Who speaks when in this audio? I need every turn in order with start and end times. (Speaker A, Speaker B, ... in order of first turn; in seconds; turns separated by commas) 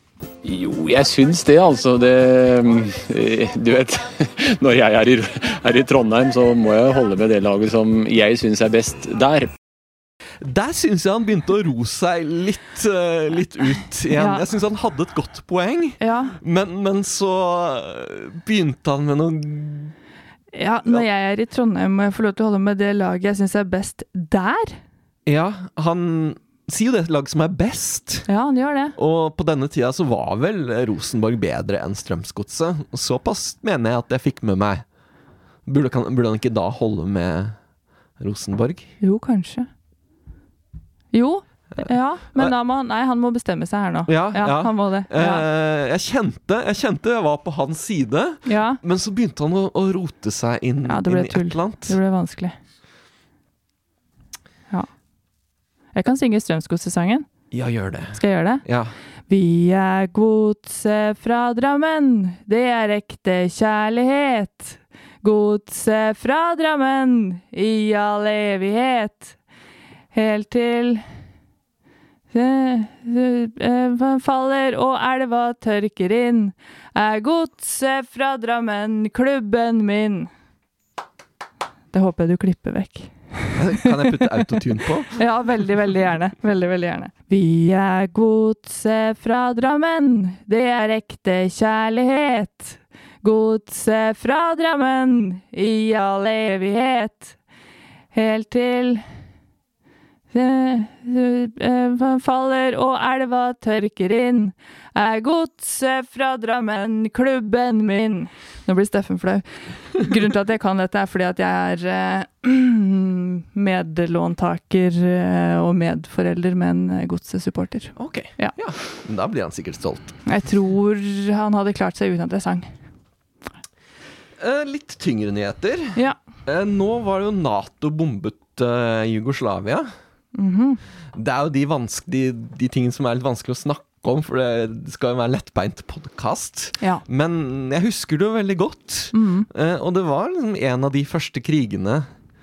Speaker A: 0.4-9.5, Speaker B: 10.4-19.9, Speaker C: 14.2-14.5, Speaker C: 16.0-16.4, Speaker C: 20.5-24.8, Speaker B: 25.3-28.3, Speaker C: 28.3-29.0, Speaker B: 29.0-34.8, Speaker B: 35.7-37.6, Speaker B: 38.2-38.9, Speaker C: 39.0-39.7, Speaker C: 41.1-45.5, Speaker B: 41.8-42.5, Speaker B: 44.1-52.0, Speaker C: 48.5-48.8, Speaker C: 50.9-52.5, Speaker C: 56.0-57.3, Speaker B: 57.5-58.9, Speaker C: 58.2-58.6, Speaker C: 59.3-69.3, Speaker C: 70.1-71.0, Speaker C: 72.3-80.3, Speaker C: 81.9-84.5, Speaker B: 83.6-85.2, Speaker C: 85.1-97.4, Speaker C: 98.1-99.0, Speaker C: 100.3-118.5, Speaker B: 118.0-120.2, Speaker C: 120.3-122.7, Speaker B: 124.4-129.9, Speaker C: 130.3-130.8, Speaker B: 131.1-142.1, Speaker C: 139.1-139.5